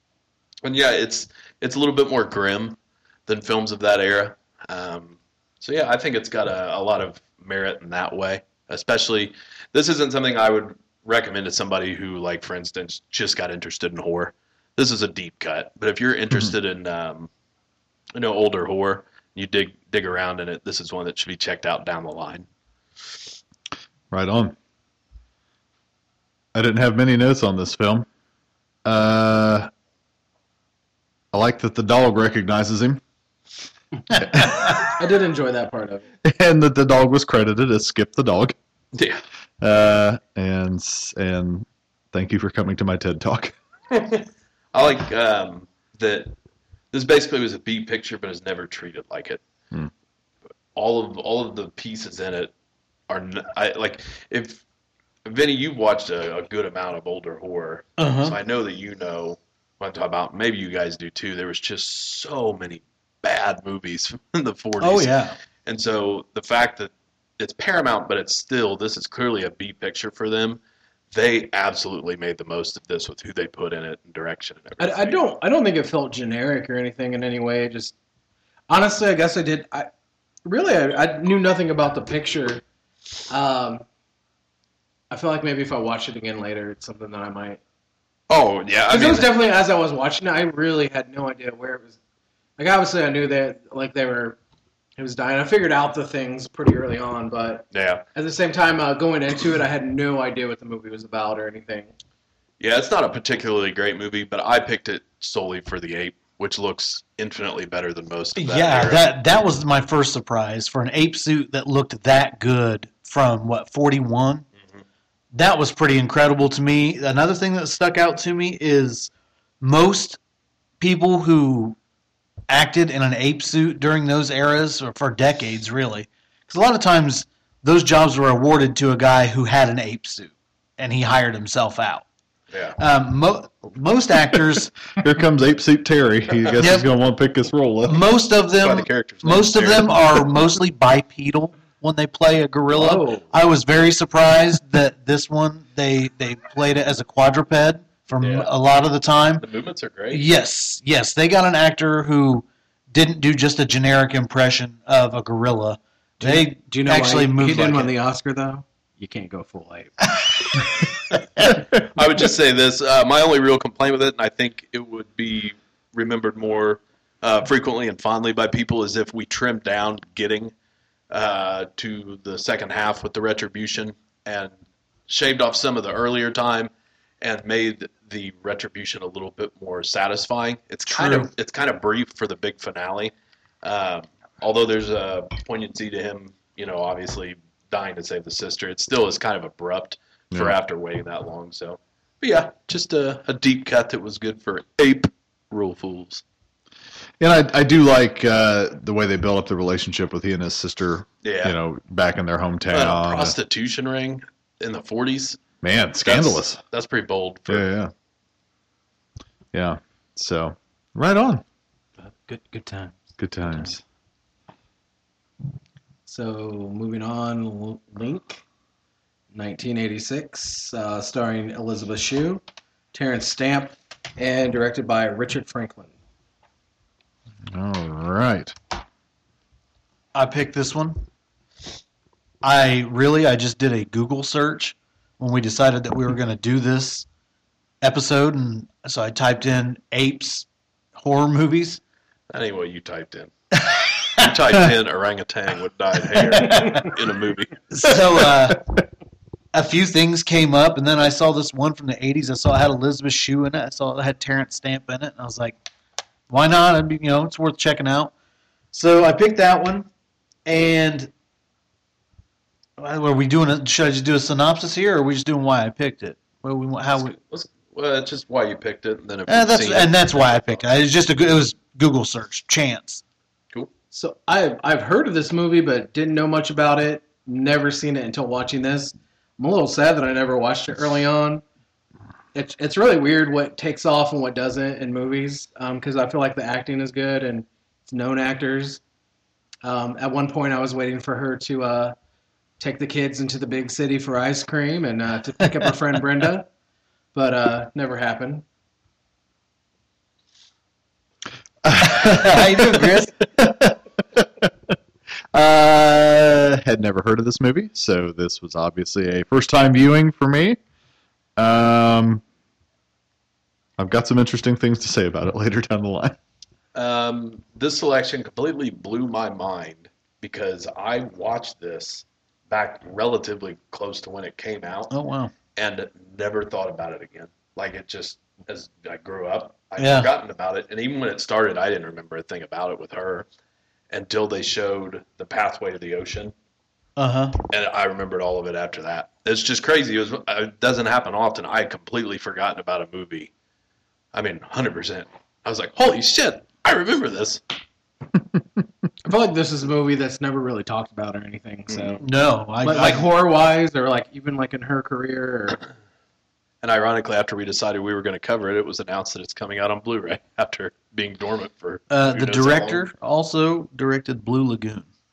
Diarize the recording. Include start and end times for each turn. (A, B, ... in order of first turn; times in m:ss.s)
0:00.6-0:17.3 A
0:18.1-0:22.5 A
0:24.1-0:24.6 B
0:26.5-0:28.1 B
0:28.8-0:29.7 B
0:31.3-0:33.0 B
0:34.2-0:34.8 B
0:34.8-0:36.0 C
0:36.2-0:38.6 B
0:38.9-0:39.2 A
0:39.6-0:43.5 B
0:43.9-0:46.3 A
0:46.9-0:49.4 A
0:50.7-0:52.5 A
0:53.1-0:54.6 A
0:55.2-1:05.1 A
0:58.0-0:58.4 D
1:04.8-1:05.4 D
1:05.6-1:10.6 A
1:11.1-1:15.2 A
1:14.8-1:17.9 C
1:18.7-1:19.9 C
1:20.4-1:22.6 C
1:23.3-1:23.8 C
1:25.1-1:27.6 C
1:28.3-1:29.3 A
1:28.9-1:32.0 C
1:32.6-1:34.4 C
1:35.0-1:41.9 C
1:37.7-1:38.0 A
1:42.6-1:49.1 A
1:48.4-1:54.4 D
1:55.3-2:00.2 D
2:00.8-2:01.8 D
2:02.5-2:12.0 D
2:12.5-2:12.8 A
2:12.8-2:14.7 D
2:15.0-2:18.0 B
2:16.6-2:16.9 D
2:17.9-2:29.4 D
2:18.6-2:20.2 A
2:22.7-2:23.3 C
2:28.2-2:28.5 A
2:29.4-2:30.2 A
2:30.1-2:37.9 D
2:36.2-2:40.0 C
2:41.1-2:41.6 D
2:41.7-2:50.5 A
2:51.1-2:54.5 A
2:55.1-3:16.2 A
3:00.9-3:01.3 D
3:17.2-3:23.4 B
3:21.2-3:21.6 A
3:22.7-3:25.4 A
3:25.6-3:26.6 B
3:26.0-3:27.7 A
3:27.5-3:27.9 B
3:29.5-3:31.4 B
3:32.2-3:33.0 C
3:33.2-3:33.8 B
3:36.0-3:38.4 C
3:39.3-3:42.4 C
3:42.9-3:45.9 C
3:47.5-3:48.5 B
3:50.1-3:51.0 D
3:52.4-3:57.0 D
3:57.8-4:01.8 D
4:02.3-4:03.3 A
4:04.2-4:07.6 A
4:06.2-4:06.9 D
4:07.7-4:08.6 D
4:09.5-4:15.6 D
4:16.3-4:18.1 D
4:18.7-4:19.9 D
4:20.4-4:21.1 D
4:22.8-4:27.1 D
4:26.9-4:30.6 A
4:29.3-4:33.0 D
4:33.9-4:41.4 C
4:42.3-4:48.8 C
4:49.6-4:51.9 C
4:52.6-4:56.5 C
4:57.1-4:58.4 C
5:01.6-5:04.5 B
5:01.9-5:03.1 D
5:05.3-5:10.6 B
5:11.4-5:12.2 B
5:13.8-5:16.2 B
5:16.7-5:24.9 A
5:24.9-5:25.3 D
5:25.6-5:33.3 A
5:29.8-5:30.1 D
5:33.9-5:36.3 A
5:37.0-5:37.4 D
5:37.5-5:43.3 A
5:44.1-5:47.4 A
5:49.0-5:52.0 C
5:51.7-5:52.0 A
5:52.0-5:53.1 D
5:52.6-5:55.6 C
5:56.6-6:02.8 A
6:01.9-6:04.9 D